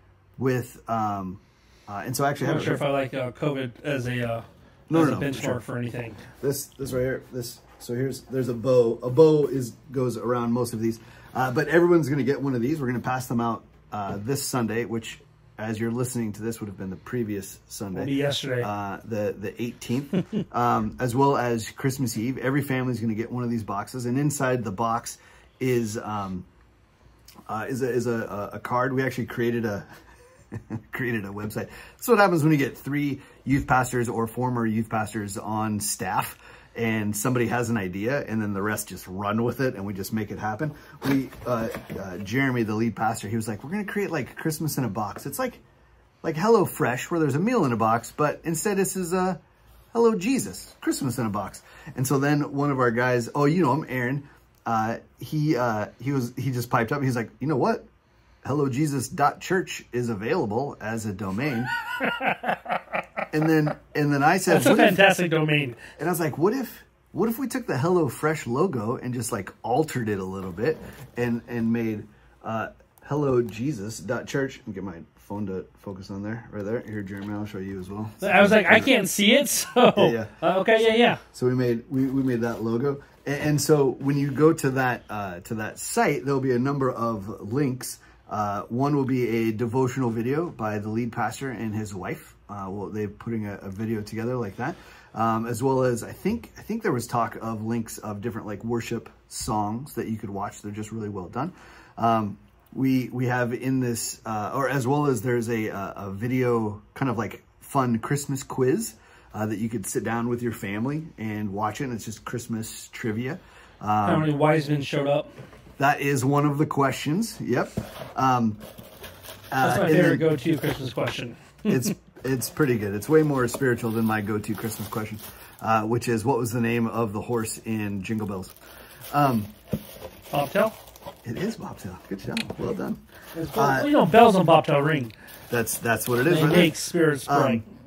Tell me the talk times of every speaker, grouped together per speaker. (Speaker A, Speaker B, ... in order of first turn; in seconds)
Speaker A: 0.4-2.8, 4.9-5.6, 6.4-26.5, 27.5-29.9, 30.5-45.6, 46.2-49.4, 49.9-57.9, 58.4-61.7, 63.3-65.0, 66.0-78.9, 80.0-80.3, 81.3-114.3, 115.8-118.6, 119.5-120.2, 121.7-128.5, 129.1-129.5, 131.2-133.9, 135.5-137.6
Speaker B: 2.4-6.2, 17.9-18.7, 61.9-63.2, 64.5-65.8, 78.2-81.2, 114.0-115.3, 119.6-121.9, 130.3-130.8, 133.3-135.1, 136.2-137.6